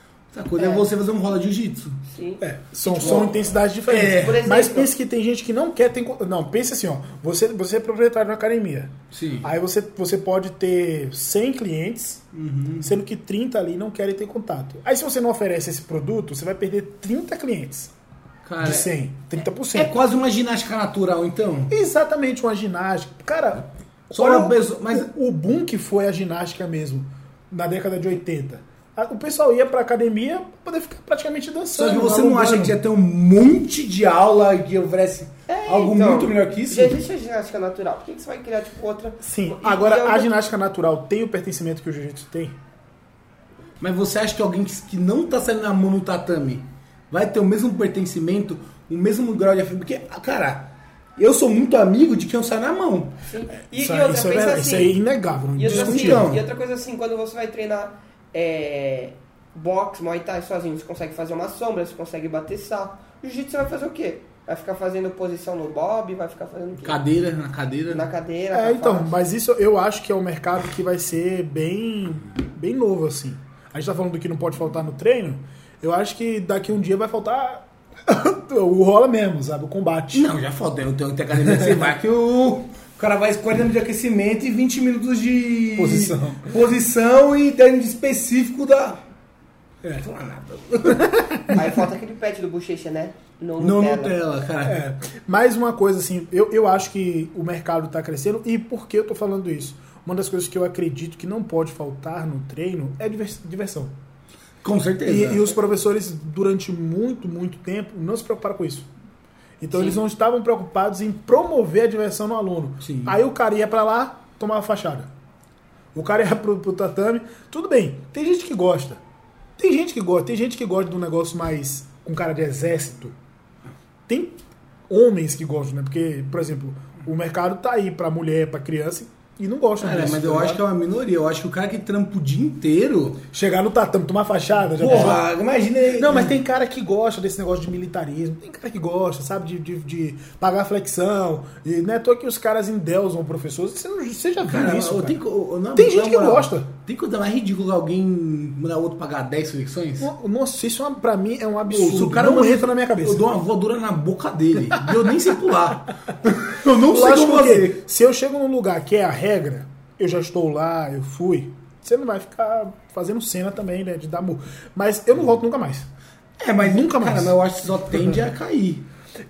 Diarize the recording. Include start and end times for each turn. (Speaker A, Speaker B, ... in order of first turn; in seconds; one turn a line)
Speaker A: 0.3-2.0
Speaker B: 0.6-0.9
Speaker B: 2.1-3.4
Speaker C: 2.4-12.3
Speaker A: 3.0-4.4
Speaker B: 4.0-4.9
Speaker A: 9.1-9.5
Speaker A: 12.3-12.9
Speaker C: 12.8-17.9
Speaker A: 18.4-18.9
Speaker C: 18.6-19.9
Speaker A: 19.7-21.7
Speaker C: 21.7-32.8
Speaker A: 24.1-25.1
Speaker A: 31.7-37.0
Speaker B: 35.5-40.3
Speaker C: 39.2-42.6
Speaker A: 43.8-53.2
Speaker B: 53.3-55.0
Speaker C: 53.7-56.3
Speaker B: 55.6-67.0
Speaker A: 55.7-56.5
Speaker A: 66.8-68.1
Speaker B: 67.9-69.1
Speaker C: 68.5-80.3
Speaker A: 80.1-89.0
Speaker C: 85.8-86.5
Speaker A: 90.0-91.1
Speaker C: 90.9-91.7
Speaker B: 91.5-94.1
Speaker A: 93.6-94.8
Speaker C: 94.6-103.9
Speaker A: 104.6-105.5
Speaker C: 105.0-108.9
Speaker C: 109.6-115.1
Speaker B: 109.7-110.0
Speaker A: 112.8-113.2
Speaker C: 116.0-119.0
Speaker C: 119.6-123.2
Speaker C: 124.1-130.6
Speaker A: 129.8-133.2
Speaker C: 133.3-135.3
Speaker A: 134.8-136.4
Speaker C: 136.0-145.2
Speaker A: 144.4-150.1
Speaker C: 145.7-146.7
Speaker C: 150.0-153.2
Speaker A: 151.7-157.8
Speaker C: 156.7-165.9
Speaker A: 166.4-168.8
Speaker C: 166.6-167.3